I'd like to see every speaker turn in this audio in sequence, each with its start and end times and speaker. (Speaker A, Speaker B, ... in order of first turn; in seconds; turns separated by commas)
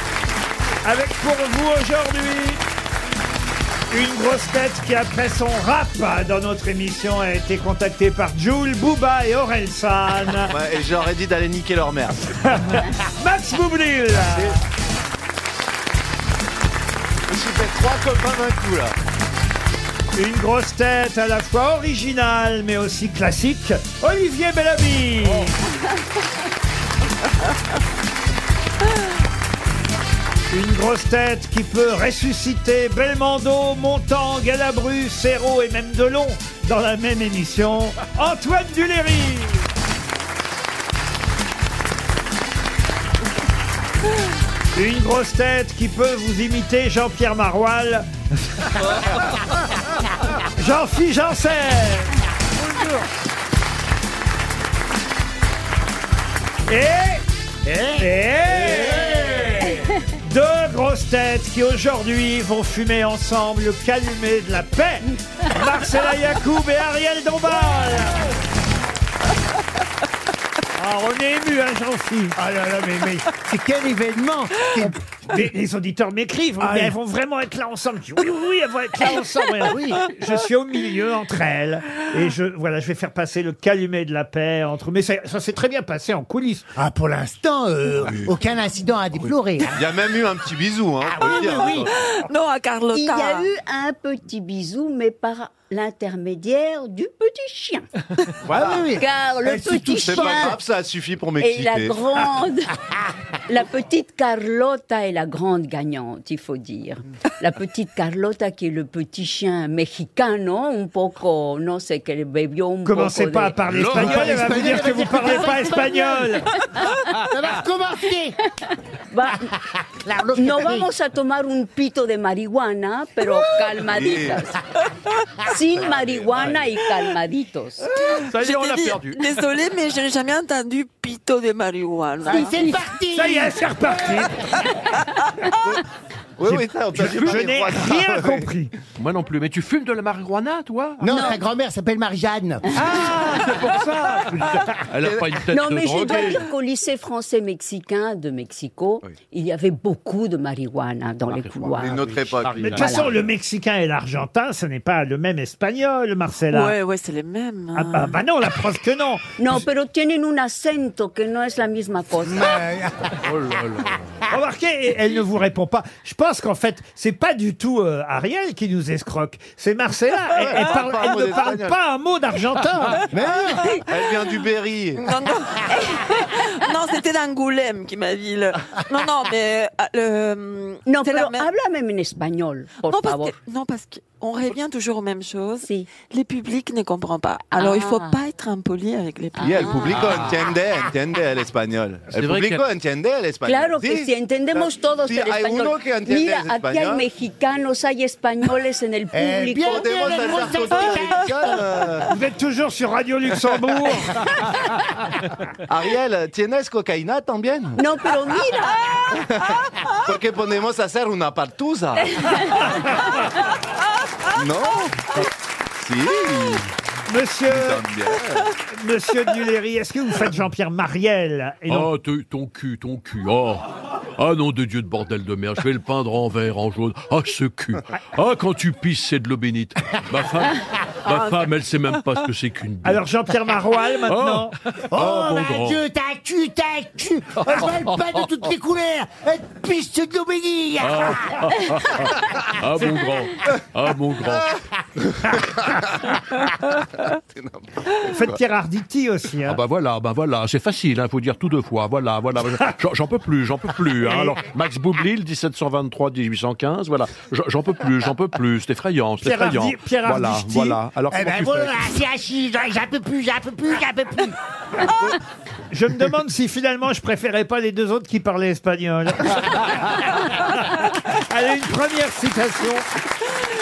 Speaker A: 0.8-2.6, Speaker A: 3.9-10.5, Speaker B: 10.5-12.1, Speaker A: 12.2-14.5, Speaker B: 14.3-14.6, Speaker B: 17.3-18.9, Speaker A: 20.1-25.6, Speaker A: 30.5-39.7, Speaker A: 44.7-48.9, Speaker A: 50.5-52.2, Speaker A: 56.7-57.2, Speaker C: 57.6-58.0, Speaker A: 58.0-68.3, Speaker C: 58.9-59.3, Speaker A: 70.8-72.3, Speaker C: 72.3-75.0, Speaker A: 75.2-86.7, Speaker C: 76.6-76.9, Speaker C: 79.6-80.0, Speaker C: 86.8-90.1, Speaker B: 89.2-91.9, Speaker C: 91.0-91.9, Speaker D: 91.5-93.5, Speaker E: 92.9-97.9, Speaker B: 98.4-98.8, Speaker C: 98.5-100.6, Speaker E: 98.9-100.6, Speaker B: 100.0-102.0, Speaker E: 101.4-102.7, Speaker E: 103.5-113.6, Speaker A: 112.8-116.6, Speaker F: 113.7-114.8, Speaker C: 113.9-116.2, Speaker E: 115.6-117.0, Speaker C: 117.0-118.4, Speaker E: 119.1-119.5, Speaker C: 119.4-120.9, Speaker E: 120.3-124.5, Speaker B: 123.8-124.4, Speaker E: 125.4-127.9, Speaker B: 125.8-126.6, Speaker D: 128.1-132.6, Speaker F: 128.3-129.2, Speaker C: 132.2-134.4, Speaker A: 133.1-134.5, Speaker B: 136.4-138.5, Speaker A: 136.4-138.7, Speaker F: 137.0-137.4, Speaker F: 138.9-141.1, Speaker C: 141.0-142.9, Speaker E: 141.1-141.4, Speaker F: 142.8-146.4, Speaker A: 142.9-144.6, Speaker B: 145.0-145.3, Speaker E: 145.5-153.1, Speaker B: 145.9-146.3, Speaker F: 151.2-153.1, Speaker B: 151.8-152.8, Speaker A: 152.7-156.7, Speaker D: 156.5-158.2, Speaker A: 157.7-159.6, Speaker E: 159.4-162.6, Speaker C: 162.3-163.2, Speaker F: 163.2-164.2, Speaker A: 164.2-173.1, Speaker B: 170.4-171.8, Speaker C: 173.1-173.6, Speaker B: 173.8-175.0, Speaker D: 175.0-181.4, Speaker E: 180.8-183.3, Speaker D: 182.9-190.1, Speaker E: 185.6-185.9, Speaker E: 187.5-188.2, Speaker B: 189.4-197.1, Speaker E: 189.4-190.1, Speaker F: 189.9-190.2, Speaker F: 192.1-192.7, Speaker E: 193.4-200.6, Speaker C: 199.1-201.4, Speaker B: 199.6-202.1, Speaker A: 202.1-204.3, Speaker B: 205.7-207.8, Speaker E: 207.8-209.1, Speaker B: 210.0-212.3, Speaker E: 212.2-212.6, Speaker A: 212.5-213.0, Speaker B: 214.3-216.7, Speaker A: 217.1-217.8, Speaker B: 217.5-218.5, Speaker A: 218.6-221.9, Speaker F: 221.7-233.0, Speaker A: 232.8-234.6, Speaker F: 234.0-235.8, Speaker C: 234.9-241.5, Speaker F: 237.5-238.0, Speaker F: 240.8-244.5, Speaker B: 245.1-245.9, Speaker B: 247.0-248.3, Speaker A: 247.9-249.6, Speaker F: 249.4-261.8, Speaker A: 254.0-254.4, Speaker A: 259.2-260.8, Speaker C: 261.1-264.4, Speaker A: 265.7-272.9